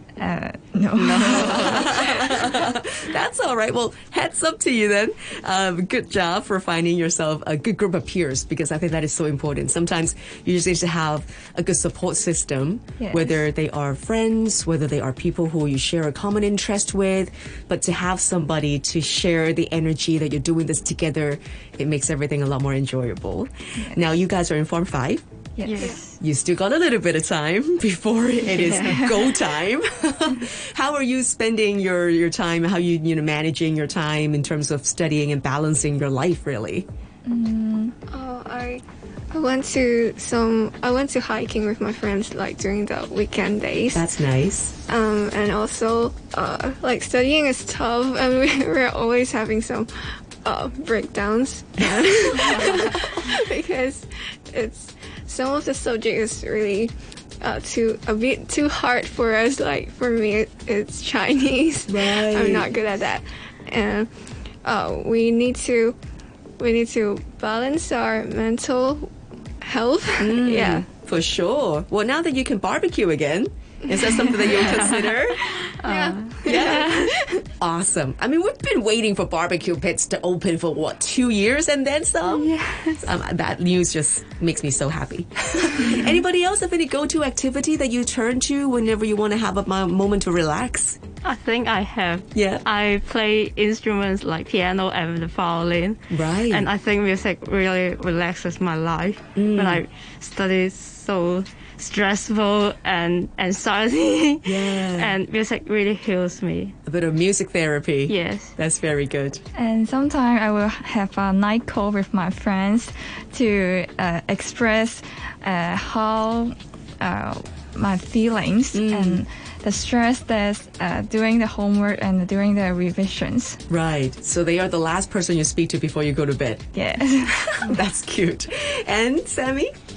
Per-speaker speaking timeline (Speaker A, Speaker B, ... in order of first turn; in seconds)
Speaker A: 0.2-2.3, 13.0-13.4, 25.6-25.9, 37.3-37.9, 109.5-123.6, 126.8-127.8
Speaker B: 1.0-25.2, 26.2-36.9, 43.9-44.8, 61.9-62.7, 70.2-75.4, 76.5-76.9, 77.6-91.0, 92.3-92.6, 96.1-96.7, 99.4-99.8, 104.4-105.2, 106.9-109.4, 118.7-119.2, 123.7-126.7, 127.6-129.7
Speaker C: 1.3-1.8, 25.6-26.2, 28.5-29.2, 74.4-77.2, 82.2-83.1, 91.2-106.8, 108.1-108.5
Speaker D: 38.1-44.1, 44.9-49.9, 50.4-64.1, 64.7-66.0, 66.6-69.1, 69.6-70.9, 75.8-77.1